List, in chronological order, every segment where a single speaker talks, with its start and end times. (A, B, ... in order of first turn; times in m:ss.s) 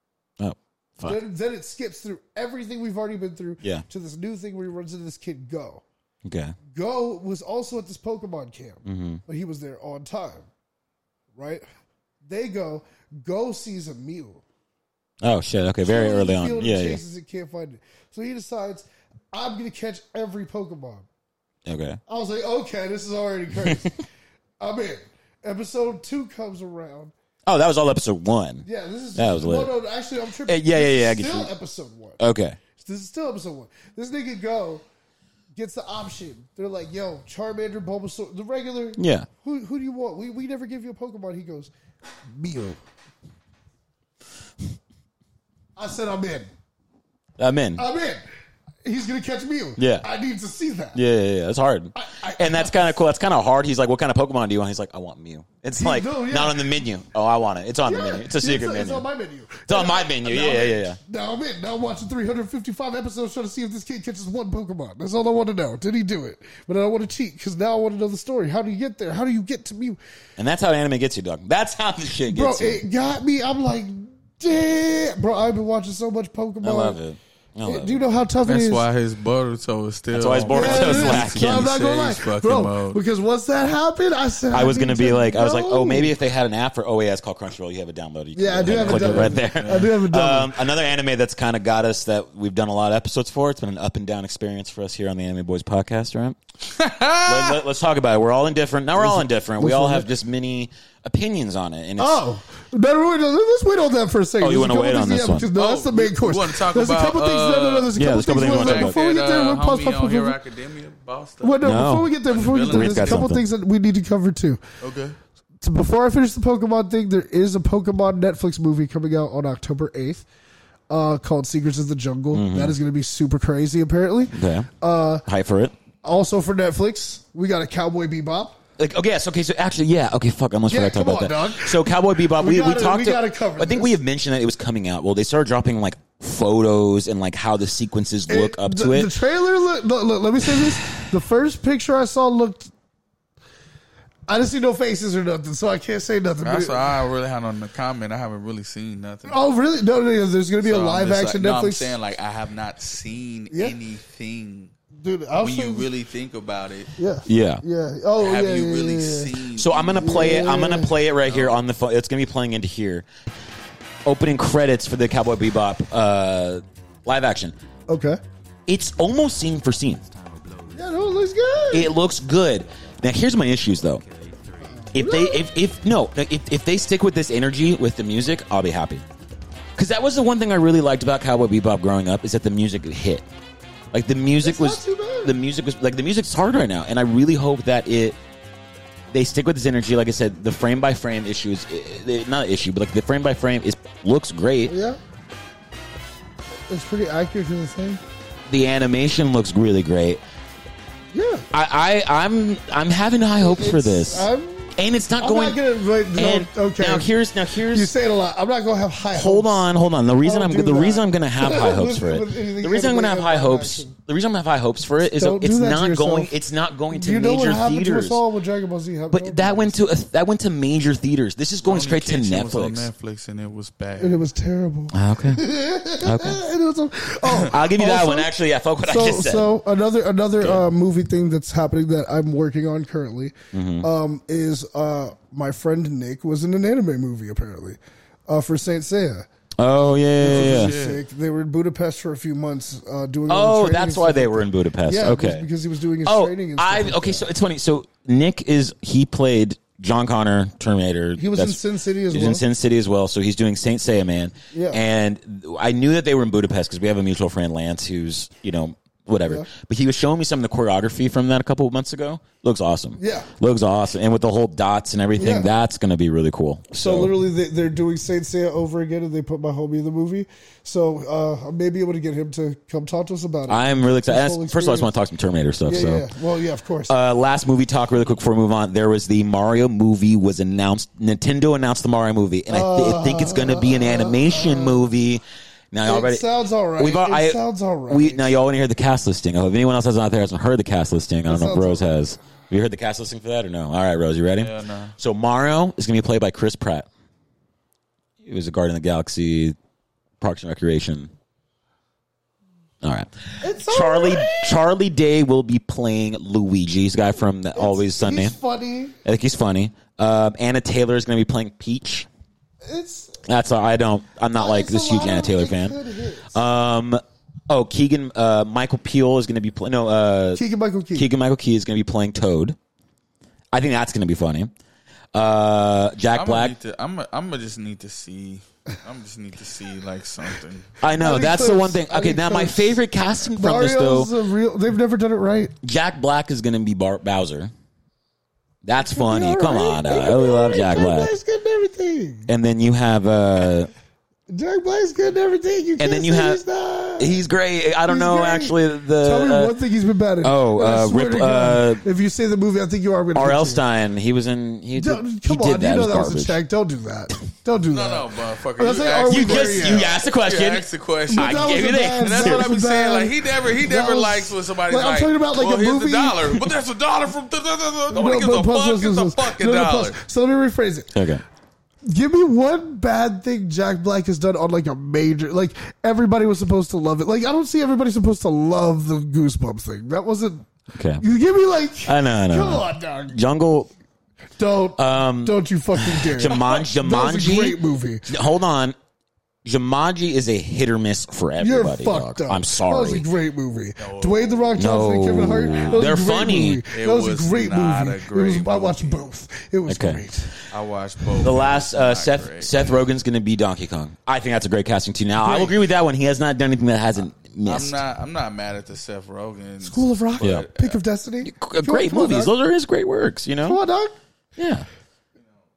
0:00.4-0:01.2 A
0:01.0-0:05.8 B
0:06.2-0:06.6 A
0:06.7-0:10.5 B
0:08.8-0:09.2 A
0:11.4-0:11.6 B
0:12.2-0:14.4 B
0:15.2-0:17.0 A
0:15.8-0:21.1 B
0:21.7-0:22.0 A
0:22.1-0:24.0 B
0:24.6-0:27.1 B
0:27.5-0:29.7 A
0:28.6-0:32.2 B
0:30.5-0:31.5 A
0:32.2-0:32.6 A
0:32.8-0:34.8 B
0:35.6-0:41.7 B
0:39.0-0:39.3 A
0:42.2-0:42.8 B
0:45.8-0:46.5 B
0:47.4-0:47.8 A
0:47.8-0:48.2 B
0:48.8-0:51.0 B
0:49.8-0:50.0 A
0:50.9-0:59.1 A
0:52.0-0:53.0 B
0:55.8-0:56.7 B
0:57.8-1:10.0 B
0:59.7-1:01.0 A
1:10.4-1:12.8 A
1:12.3-1:17.0 B
1:16.6-1:18.0 A
1:17.6-1:18.8 B
1:18.5-1:23.0 C
1:20.1-1:21.7 A
1:20.5-1:26.1 B
1:24.5-1:36.4 A
1:28.4-1:30.6 B
1:28.7-1:29.3 C
1:36.7-1:37.6 C
1:37.2-1:42.2 A
1:39.0-1:40.1 B
1:42.0-1:50.4 B
1:44.4-1:45.5 A
1:45.6-1:51.6 C
1:48.0-1:49.0 A
1:51.4-1:54.6 B
1:51.6-1:52.1 A
1:52.2-1:53.3 C
1:52.7-1:53.4 A
1:54.8-1:55.2 C
1:55.6-2:00.3 B
2:00.9-2:05.2 B
2:02.3-2:02.8 A
2:04.3-2:04.7 A
2:05.3-2:05.7 A
2:06.0-2:08.6 B
2:08.8-2:19.1 A
2:10.7-2:14.0 B
2:18.3-2:22.7 B
2:24.3-2:26.9 B
2:26.4-2:29.4 C
2:29.3-2:32.0 B
2:30.6-2:34.7 C
2:33.5-2:33.8 B
2:34.9-2:35.9 B
2:35.4-2:36.9 C
2:37.0-2:39.4 B
2:37.3-2:37.6 A
2:38.2-2:40.2 C
2:39.6-2:43.1 A
2:40.0-2:41.0 B
2:41.2-2:41.6 C
2:44.1-2:47.6 A
2:47.9-2:48.2 B
2:48.7-2:50.1 A
2:50.7-2:51.9 B
2:51.7-2:54.0 A
2:54.6-2:55.4 B
2:54.9-2:59.0 A
2:59.8-3:03.2 A
3:03.9-3:08.2 A
3:04.4-3:05.4 B
3:09.1-3:14.7 A
3:14.7-3:15.0 B
3:16.7-3:18.0 B
3:18.5-3:20.2 A
3:21.1-3:21.5 B
3:21.5-3:25.6 A
3:23.4-3:27.1 B
3:26.2-3:27.9 A
3:27.7-3:29.7 B
3:29.1-3:38.2 A
3:30.2-3:34.0 B
3:35.2-3:36.3 B
3:36.9-3:39.8 B
3:39.1-3:42.9 A
3:41.6-3:44.2 C
3:44.0-3:48.3 B
3:44.9-3:45.4 A
3:46.0-3:46.4 A
3:47.5-3:49.5 A
3:48.8-3:59.3 B
3:53.5-3:53.9 A
3:59.6-4:00.8 A
4:00.2-4:07.3 B
4:00.2-4:01.0 C
4:03.3-4:05.5 A
4:06.0-4:27.1 A
4:11.2-4:12.4 B
4:14.5-4:14.8 B
4:23.0-4:23.3 B
4:25.2-4:25.5 B
4:26.8-4:34.9 B
4:33.5-4:36.1 A
4:35.7-4:37.0 B
4:36.9-4:56.9 A
4:42.5-4:44.8 B
4:45.8-4:48.4 B
4:51.3-4:52.0 B
4:54.4-4:54.9 C
4:58.2-4:59.6 A
5:00.2-5:01.1 A
5:02.8-5:08.4 A
5:03.4-5:04.6 B
5:07.6-5:09.0 B
5:09.0-5:12.1 A
5:12.6-5:13.2 B
5:13.2-5:15.8 A
5:14.3-5:16.4 B
5:16.3-5:20.4 A
5:20.4-5:21.1 B
5:21.0-5:22.6 A
5:23.5-5:24.5 A
5:25.1-5:26.6 A
5:26.1-5:30.7 C
5:30.8-5:34.1 A
5:30.9-5:32.8 B
5:33.4-5:35.6 B
5:35.6-5:37.5 A
5:38.6-5:41.1 A
5:38.8-5:42.3 B
5:42.3-5:43.7 A
5:44.3-5:47.2 B
5:45.8-5:46.4 A
5:47.0-5:49.6 A
5:47.9-5:53.6 B
5:50.2-5:51.8 A
5:53.2-5:56.4 A
5:54.8-5:59.9 B
5:57.7-6:10.0 C
5:59.1-6:02.5 A
6:01.1-6:06.5 B
6:07.9-6:10.9 B
6:10.9-6:11.2 A
6:11.9-6:20.5 B
6:20.8-6:21.0 A
6:21.0-6:23.2 B
6:21.9-6:23.7 A
6:24.4-6:28.1 B
6:24.8-6:28.8 A
6:29.4-6:33.1 A
6:31.4-6:40.3 B
6:33.8-6:34.5 C
6:34.6-6:36.6 A
6:35.5-6:35.9 C
6:36.7-6:39.1 C
6:39.7-6:40.0 A
6:40.5-6:42.8 C
6:41.2-6:47.8 A
6:45.2-6:45.6 B
6:47.4-6:50.8 C
6:49.6-6:52.3 B
6:51.2-6:53.6 A
6:53.4-6:54.0 B
6:54.4-6:54.7 A